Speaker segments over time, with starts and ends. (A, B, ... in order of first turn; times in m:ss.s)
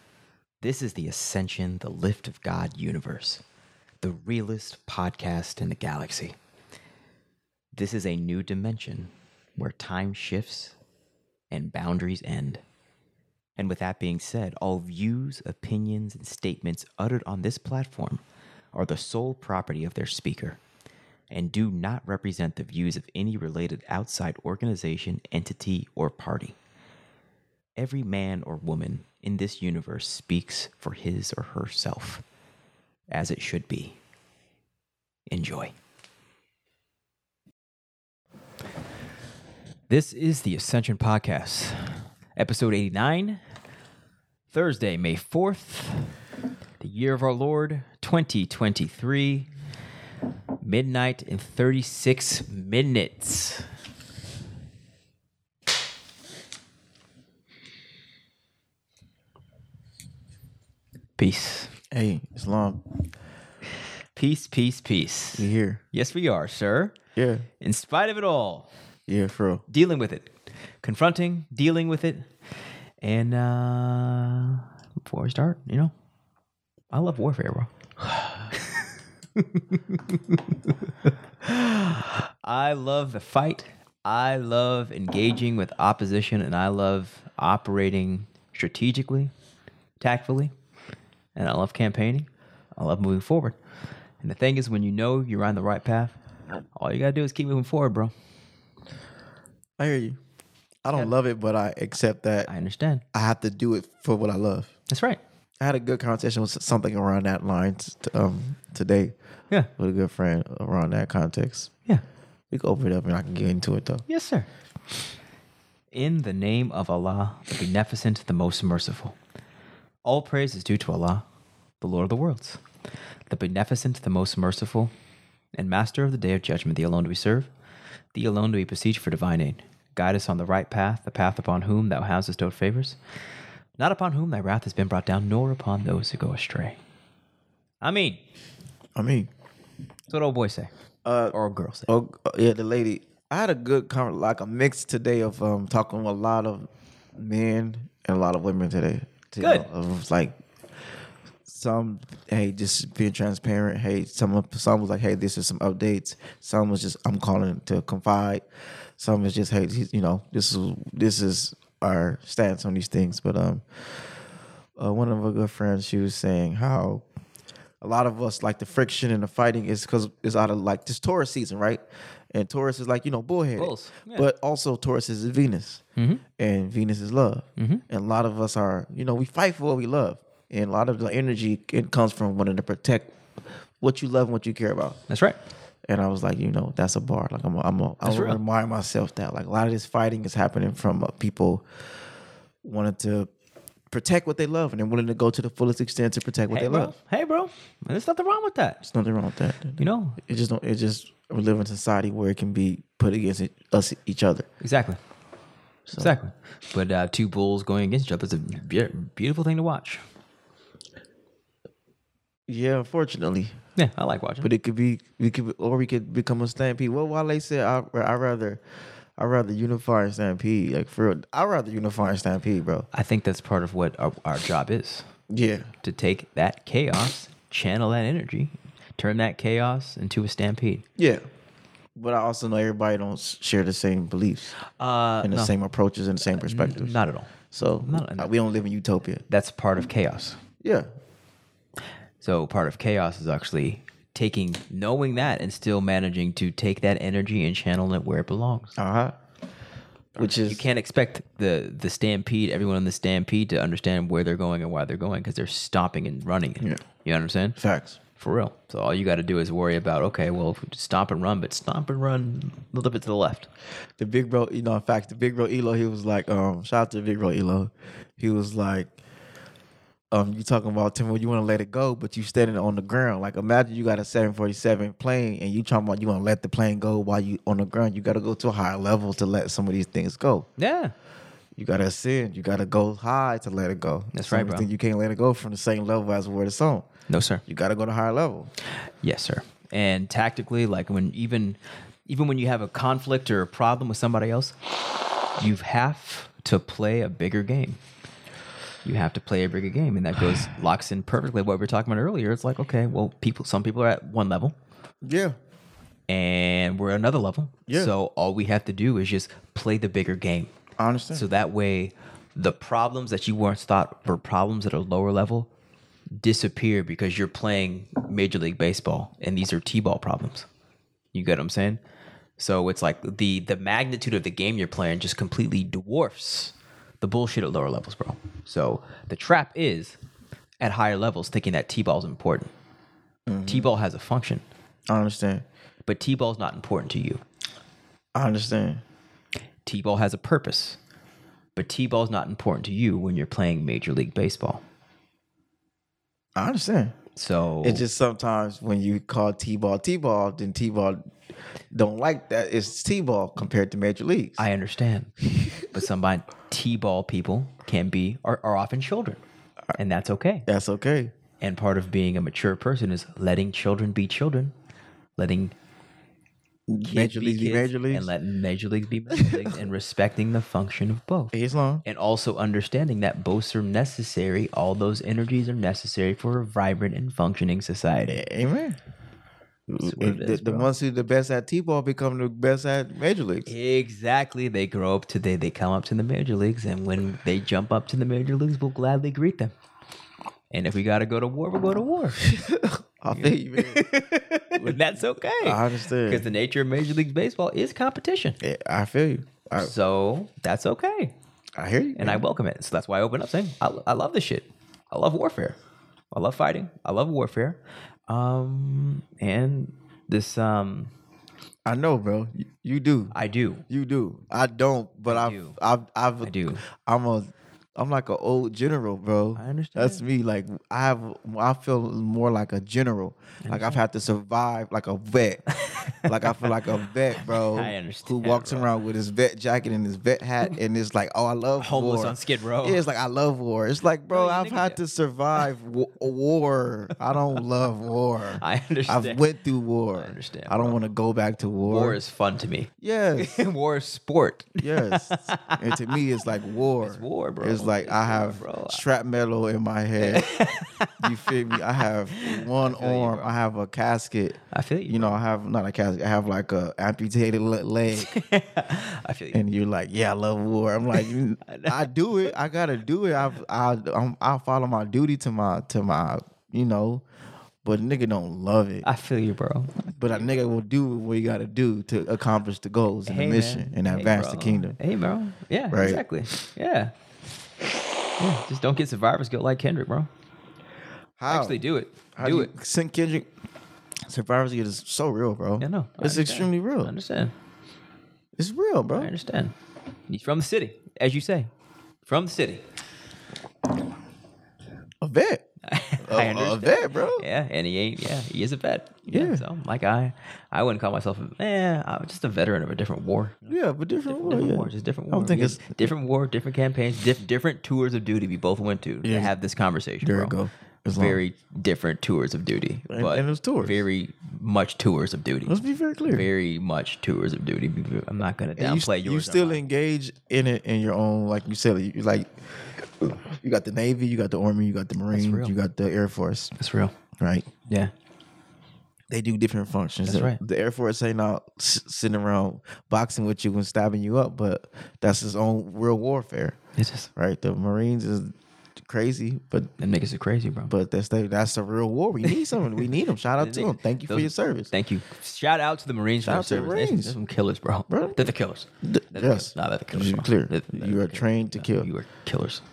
0:00.6-0:03.4 A
0:04.0-0:06.4 A
0:07.7-0:10.7 A
0:11.5-0:12.6 A
0:13.6-0:18.2 A
0:18.7-0:20.6 A
0:21.3-0:26.6 A
0:27.8-0:32.2 A
0:33.1-0:34.0 A
0:35.3-0:35.7 A
0:39.9-0:43.4 A
0:44.5-0:46.1 A
0:46.8-0:49.5 A
0:50.6-0:53.7 A
1:01.2-1:01.7 A
1:01.9-1:02.9 B
1:04.1-1:06.9 A
1:05.4-1:05.8 B
1:07.1-1:07.4 B
1:07.6-1:08.7 A
1:09.1-1:09.6 B
1:09.7-1:10.3 A
1:10.8-1:12.3 A
1:13.0-1:15.9 A
1:16.9-1:20.7 A
1:21.4-1:29.3 A
1:30.0-1:30.5 A
1:31.3-1:33.6 A
1:34.2-1:36.2 A
1:36.7-1:38.1 A
1:39.8-1:40.2 B
1:40.8-1:42.5 B
1:42.4-1:43.0 A
1:43.1-1:44.7 B
1:44.9-1:45.2 A
1:45.6-1:49.1 B
1:49.8-1:51.7 B
1:52.5-1:54.0 B
1:54.1-1:54.5 A
1:55.9-1:59.2 A
2:00.0-2:01.2 A
2:01.8-2:02.6 A
2:03.3-2:04.9 A
2:05.5-2:07.5 A
2:08.1-2:13.0 A
2:13.8-2:16.8 A
2:17.8-2:18.2 A
2:19.0-2:19.3 B
2:20.1-2:20.7 A
2:21.0-2:21.3 B
2:21.3-2:21.9 A
2:21.9-2:30.3 B
2:29.4-2:29.7 A
2:31.4-2:38.4 B
2:39.0-2:43.6 B
2:44.8-2:47.0 B
2:47.8-2:55.8 B
2:53.6-2:54.2 A
2:56.0-2:56.2 A
2:56.4-3:03.1 B
2:57.6-2:57.8 A
3:03.8-3:05.0 B
3:05.1-3:05.4 A
3:05.9-3:11.6 B
3:08.0-3:08.4 A
3:12.6-3:13.3 B
3:13.9-3:16.9 B
3:16.5-3:18.8 A
3:18.8-3:24.4 B
3:19.8-3:20.2 A
3:24.6-3:25.0 A
3:25.9-3:26.1 B
3:26.0-3:30.0 A
3:32.5-3:33.6 B
3:33.8-3:34.5 A
3:34.4-3:38.6 B
3:39.2-3:42.9 B
3:42.9-3:45.1 A
3:45.3-3:45.7 B
3:45.8-3:50.8 A
3:51.0-3:51.2 B
3:52.0-3:54.6 B
3:54.7-3:55.5 A
3:55.2-3:57.0 B
3:56.3-3:57.3 A
3:57.5-3:59.2 B
3:57.8-3:58.3 A
3:59.3-4:00.4 A
4:00.6-4:00.9 B
4:02.2-4:08.8 A
4:08.8-4:09.1 B
4:10.2-4:10.7 B
4:10.4-4:17.6 A
4:17.6-4:18.0 B
4:18.2-4:23.5 A
4:24.0-4:28.9 B
4:30.1-4:40.5 B
4:40.6-4:40.9 A
4:41.6-4:46.8 B
4:44.1-4:44.7 A
4:47.1-4:47.4 A
4:47.5-4:48.5 B
4:49.0-4:54.5 A
4:55.4-4:57.8 A
4:58.8-5:04.6 A
5:05.0-5:05.4 B
5:06.1-5:10.5 A
5:07.7-5:07.9 B
5:10.8-5:11.2 B
5:11.1-5:15.5 A
5:16.2-5:20.5 A
5:21.1-5:21.8 A
5:22.4-5:30.0 A
5:30.6-5:32.5 A
5:33.3-5:33.7 B
5:33.4-5:34.4 A
5:34.9-5:35.4 B
5:35.8-5:37.2 A
5:38.1-5:38.8 B
5:39.6-5:40.8 A
5:41.6-5:44.6 A
5:46.4-5:46.9 B
5:47.1-5:47.8 A
5:47.6-5:51.1 B
5:51.7-5:54.4 B
5:54.4-5:59.2 A
5:55.4-5:55.6 B
5:59.7-6:00.4 A
6:00.5-6:01.1 B
6:01.4-6:04.5 A
6:05.2-6:05.5 A
6:06.7-6:08.1 B
6:06.9-6:11.3 A
6:09.1-6:09.5 B
6:11.3-6:11.8 B
6:11.8-6:18.2 A
6:18.1-6:18.8 B
6:19.7-6:20.7 A
6:19.8-6:23.5 B
6:23.4-6:29.5 A
6:30.5-6:32.2 A
6:32.2-6:33.9 B
6:33.1-6:38.4 A
6:34.5-6:34.8 B
6:35.4-6:36.3 B
6:38.4-6:39.7 B
6:39.6-6:41.1 A
6:41.6-6:42.2 B
6:42.0-6:45.6 A
6:46.1-6:50.9 A
6:51.6-6:53.2 B
6:53.1-6:53.6 A
6:53.7-7:22.0 B
6:55.1-6:55.6 A
6:56.2-6:56.6 A
6:59.4-7:00.0 A
7:03.4-7:03.8 A
7:05.5-7:06.5 A
7:07.1-7:08.7 A
7:11.6-7:12.8 A
7:14.1-7:14.8 A
7:18.4-7:19.2 A
7:19.9-7:20.8 A
7:21.6-7:25.9 A
7:22.8-7:23.4 B
7:24.6-7:30.4 B
7:26.8-7:28.8 A
7:30.0-7:31.6 A
7:31.0-7:38.1 B
7:32.1-7:33.3 A
7:34.5-7:35.2 A
7:37.9-7:39.4 A
7:39.3-7:47.0 B
7:41.4-7:41.8 A
7:47.6-7:48.8 B
7:48.8-7:49.8 A
7:49.8-7:54.8 B
7:53.0-7:56.9 A
7:55.7-7:56.0 B
7:58.2-8:00.1 A
8:01.2-8:01.6 B
8:01.3-8:02.5 A
8:02.2-8:03.3 B
8:04.1-8:06.9 B
8:05.6-8:07.3 A
8:08.4-8:09.1 B
8:08.9-8:09.5 A
8:10.1-8:11.5 A
8:12.0-8:12.6 A
8:15.0-8:15.4 B
8:15.6-8:23.5 A
8:16.0-8:17.2 B
8:19.1-8:19.4 B
8:23.5-8:25.9 B
8:24.1-8:30.3 A
8:29.0-8:29.3 B
8:30.0-8:31.2 B
8:30.9-8:39.6 A
8:32.9-8:33.8 B
8:35.4-8:36.3 B
8:38.6-8:42.3 B
8:43.0-8:46.5 B
8:45.1-8:45.5 A
8:46.6-8:46.9 A
8:47.2-8:47.5 B
8:49.1-8:56.6 B
8:50.0-8:50.4 A
8:56.8-8:57.1 A
8:57.2-8:59.7 B
8:59.8-9:00.7 A
9:00.7-9:04.7 B
9:02.3-9:02.7 A
9:03.4-9:12.6 A
9:06.2-9:07.2 B
9:07.9-9:11.9 B